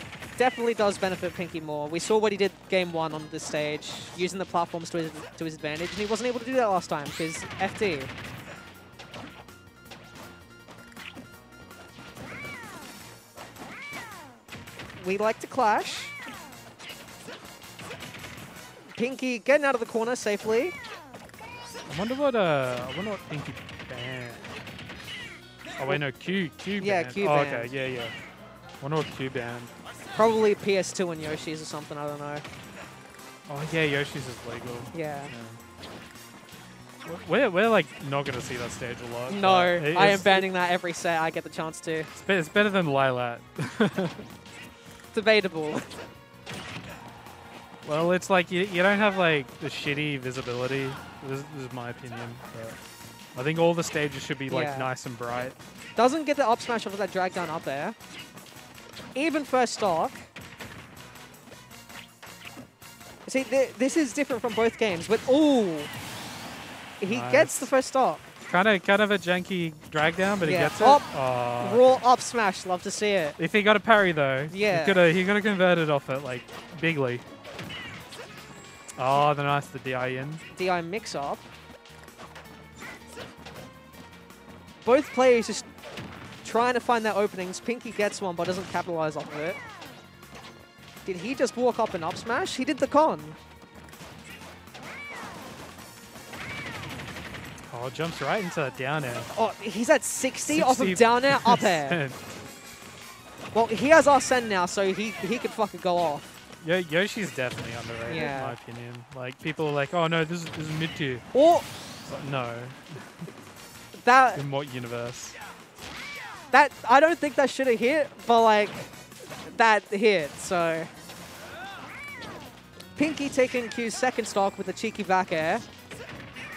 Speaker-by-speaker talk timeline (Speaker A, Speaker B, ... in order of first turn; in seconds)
Speaker A: 0.4-8.1, 15.0-16.1, 18.9-20.7, 26.8-27.7, 30.1-32.5, 34.9-35.3, 39.3-42.1, 45.1-45.9, 54.5-54.9, 56.0-58.0, 59.2-60.2, 63.3-65.9, 67.0-68.3, 70.4-73.4, 74.5-75.0, 80.5-81.4, 84.8-85.7, 86.4-89.6, 91.0-93.4, 99.3-102.0, 103.5-106.2, 108.1-108.5, 111.3-111.6, 114.0-114.4, 116.5-120.9, 123.0-125.6
Speaker B: 21.9-24.5, 25.8-28.1, 28.8-29.7, 33.5-35.6, 37.0-40.5, 42.1-44.3, 47.8-52.8, 53.3-55.5, 67.1-67.7, 68.5-72.0, 73.4-77.2, 79.0-80.4, 97.7-99.3, 100.5-102.3, 106.6-111.3, 112.0-113.2, 114.3-115.4